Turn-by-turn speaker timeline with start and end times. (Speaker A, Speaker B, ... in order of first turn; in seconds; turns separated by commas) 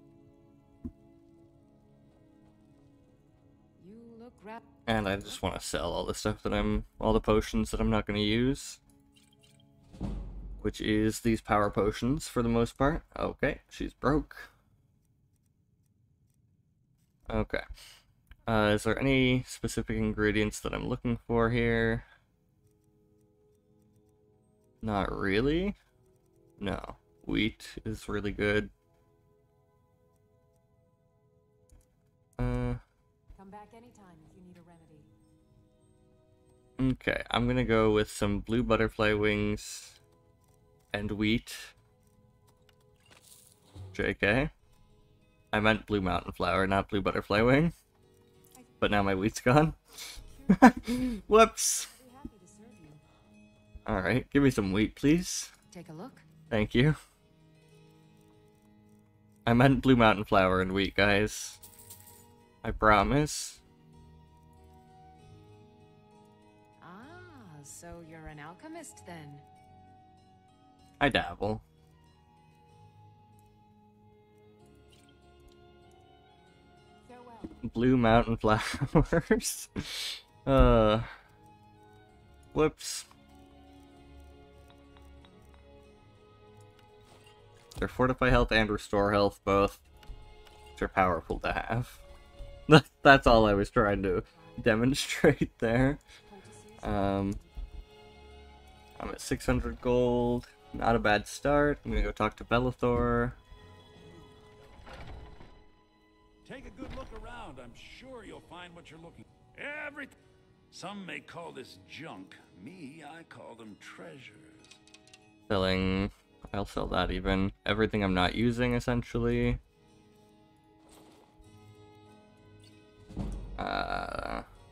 Speaker A: 3.8-5.4, Speaker B: 4.9-8.8, Speaker B: 10.6-14.5, Speaker B: 17.3-17.6, Speaker B: 18.5-22.1, Speaker B: 24.8-25.8, Speaker B: 26.6-28.7, Speaker B: 32.4-32.8, Speaker A: 33.4-35.1, Speaker B: 36.8-40.0, Speaker B: 40.9-41.8, Speaker B: 43.9-44.5, Speaker B: 45.5-47.7, Speaker B: 48.8-51.9, Speaker A: 50.0-53.0, Speaker B: 53.9-55.5, Speaker A: 55.7-56.3, Speaker B: 56.5-57.0, Speaker B: 59.5-61.6, Speaker B: 62.6-63.6, Speaker A: 66.8-69.5, Speaker B: 71.0-71.6, Speaker A: 77.0-77.6, Speaker B: 77.6-81.1, Speaker B: 82.5-83.1, Speaker B: 87.8-89.8, Speaker B: 90.8-92.0, Speaker B: 92.7-96.0, Speaker A: 94.3-94.7, Speaker A: 96.3-97.5, Speaker B: 96.8-97.4, Speaker B: 99.0-103.4, Speaker C: 106.5-110.2, Speaker C: 110.7-114.8, Speaker B: 115.5-119.6, Speaker B: 123.6-124.5